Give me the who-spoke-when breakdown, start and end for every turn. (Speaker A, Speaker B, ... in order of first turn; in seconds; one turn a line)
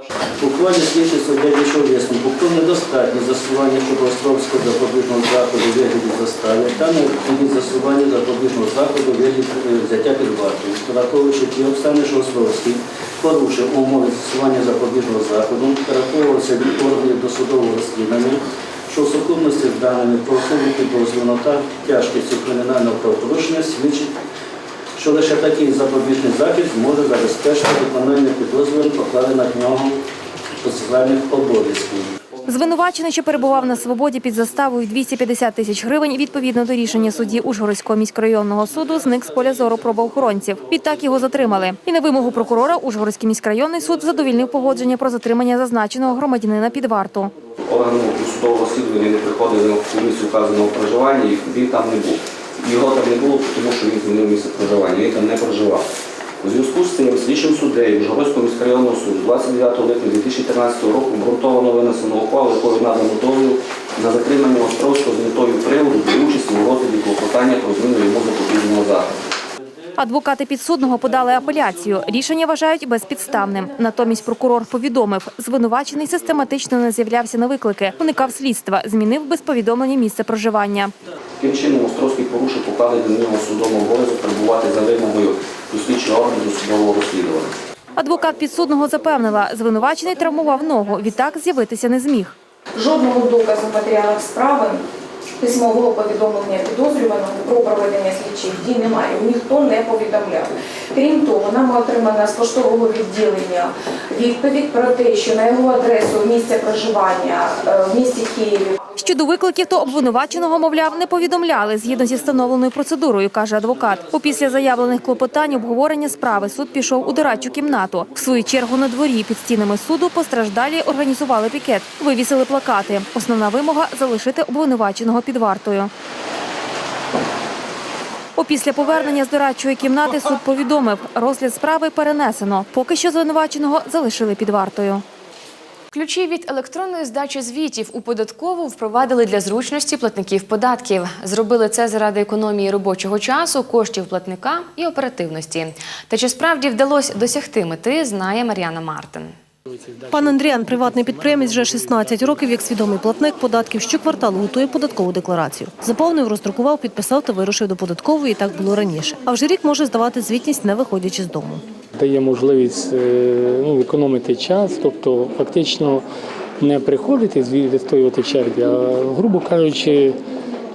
Speaker A: 0.4-24.1
Speaker A: 24.9-30.0
Speaker A: 30.6-32.1
Speaker B: 32.5-47.3
Speaker C: 47.6-55.8
Speaker C: 56.4-69.2
Speaker B: 70.0-80.9
Speaker C: 81.4-87.5
Speaker B: 88.0-92.3
Speaker D: 92.7-94.8
Speaker D: 95.4-108.8
Speaker B: 109.0-125.9
Speaker B: 128.4-135.0
Speaker E: 135.9-149.3
Speaker F: 149.7-151.9
Speaker G: 150.1-161.6
Speaker F: 161.9-166.0
Speaker F: 166.6-170.2